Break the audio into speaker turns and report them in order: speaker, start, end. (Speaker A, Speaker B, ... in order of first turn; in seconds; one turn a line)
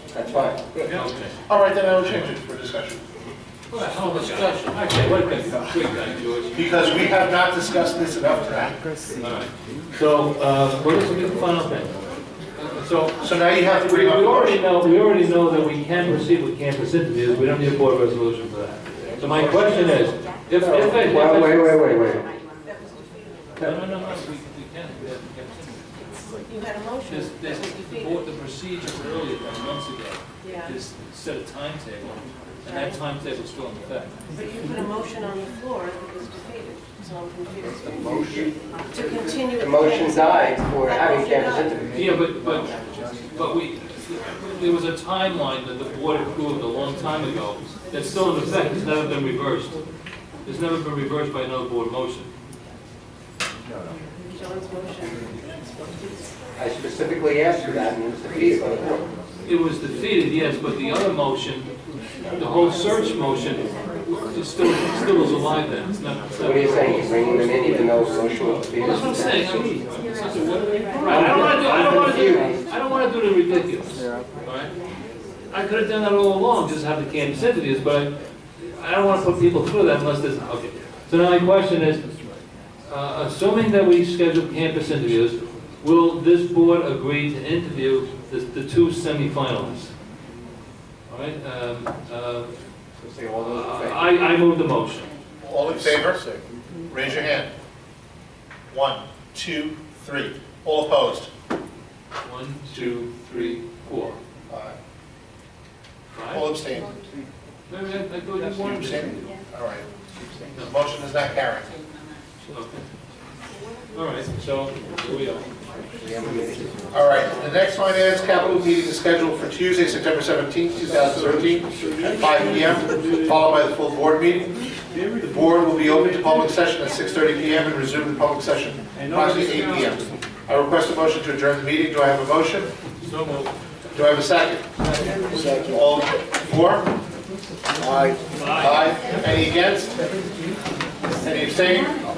Speaker A: 0.1-0.6
Speaker B: 0.9-1.3
Speaker C: 1.5-3.0
Speaker B: 3.7-6.6
Speaker C: 6.5-8.8
Speaker B: 9.2-11.9
Speaker B: 12.6-21.7
Speaker C: 13.2-14.6
Speaker A: 20.6-22.2
Speaker B: 23.6-25.8
Speaker D: 26.5-26.9
Speaker B: 27.1-34.1
Speaker D: 34.5-37.8
Speaker A: 37.9-38.5
Speaker D: 39.0-39.5
Speaker A: 39.5-42.1
Speaker B: 41.9-42.7
Speaker B: 43.3-49.8
Speaker B: 50.5-52.3
Speaker D: 54.4-54.9
Speaker A: 56.6-59.0
Speaker B: 59.5-61.7
Speaker B: 62.4-67.1
Speaker A: 66.4-69.5
Speaker B: 68.7-74.7
Speaker A: 71.0-72.6
Speaker B: 75.5-82.0
Speaker B: 82.8-89.9
Speaker B: 91.1-92.5
Speaker A: 93.0-94.1
Speaker B: 93.4-95.1
Speaker C: 95.4-96.2
Speaker C: 96.9-97.5
Speaker C: 98.7-101.3
Speaker B: 102.2-104.2
Speaker C: 102.7-103.2
Speaker C: 104.5-104.8
Speaker B: 106.1-106.5
Speaker C: 106.3-106.9
Speaker B: 107.7-109.3
Speaker C: 108.6-109.8
Speaker C: 110.5-111.7
Speaker B: 112.4-112.8
Speaker B: 113.9-115.5
Speaker A: 116.0-116.8
Speaker C: 116.9-124.5
Speaker C: 125.2-132.7
Speaker B: 133.0-133.5
Speaker C: 133.9-134.7
Speaker C: 135.3-136.9
Speaker B: 138.3-138.9
Speaker C: 138.5-140.0
Speaker C: 141.2-141.9